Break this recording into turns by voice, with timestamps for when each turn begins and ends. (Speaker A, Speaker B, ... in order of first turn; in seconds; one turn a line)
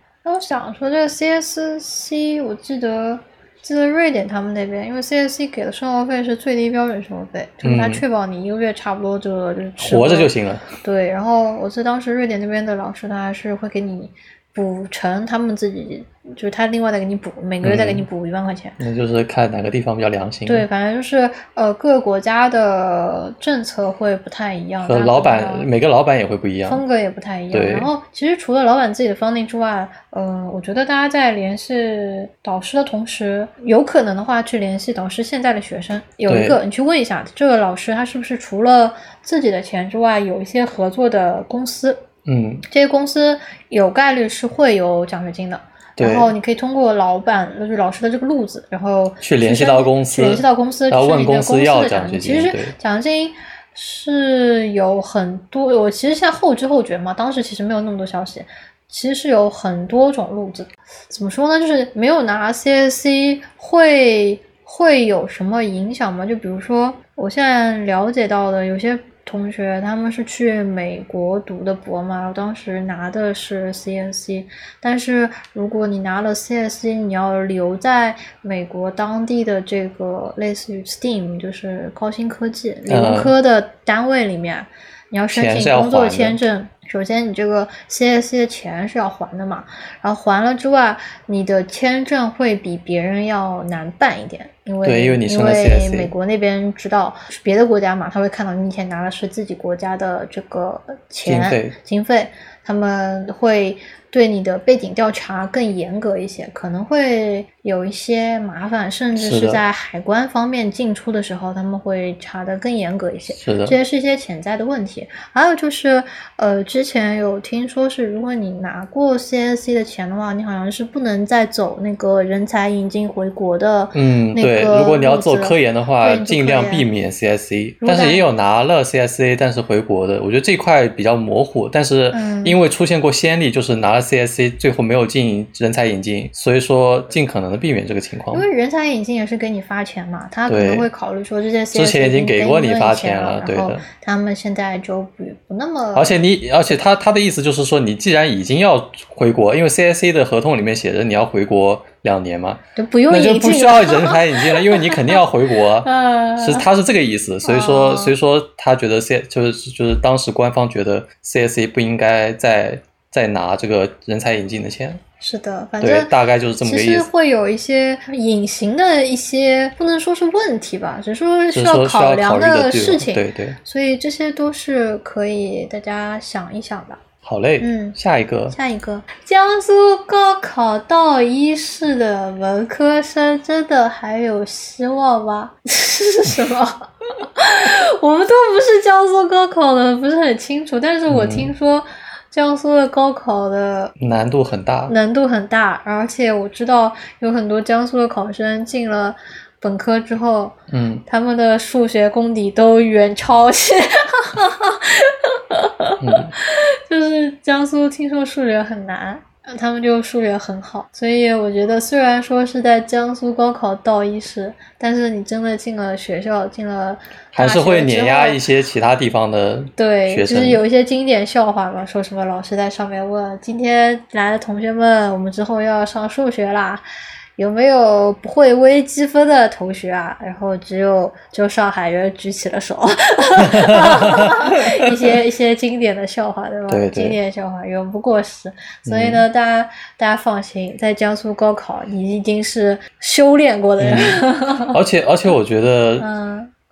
Speaker A: 0.2-18.8
Speaker B: 7.6-8.0
Speaker B: 9.8-10.7
Speaker B: 17.6-18.1
Speaker B: 18.8-20.7
Speaker A: 20.5-25.7
Speaker B: 24.8-26.8
Speaker A: 26.7-42.0
Speaker B: 27.5-27.9
Speaker B: 36.3-36.6
Speaker B: 42.3-42.6
Speaker A: 42.7-126.9
Speaker B: 46.0-46.3
Speaker B: 49.2-52.8
Speaker B: 82.9-83.3
Speaker B: 85.3-86.4
Speaker B: 94.8-96.1
Speaker B: 101.2-101.8
Speaker B: 109.2-109.6
Speaker B: 113.3-113.8
Speaker B: 123.9-138.5
Speaker A: 127.8-128.2
Speaker A: 132.1-132.6
Speaker A: 138.3-146.2
Speaker B: 140.5-140.9
Speaker B: 141.7-143.8
Speaker B: 145.9-165.0
Speaker A: 152.8-155.2
Speaker A: 155.8-156.7
Speaker A: 157.4-158.2
Speaker A: 165.2-166.1
Speaker B: 165.8-167.1
Speaker A: 166.6-177.0
Speaker B: 171.5-173.6
Speaker B: 177.2-178.6
Speaker A: 177.6-178.0
Speaker A: 178.5-193.9
Speaker B: 191.1-191.5
Speaker B: 194.0-194.9
Speaker A: 194.9-218.4
Speaker B: 200.7-201.0
Speaker B: 206.0-206.3
Speaker B: 217.3-220.6
Speaker A: 219.8-226.8
Speaker A: 227.4-244.8
Speaker B: 233.4-235.1
Speaker B: 236.7-237.2
Speaker B: 238.9-239.2
Speaker B: 243.8-246.1
Speaker A: 246.0-246.5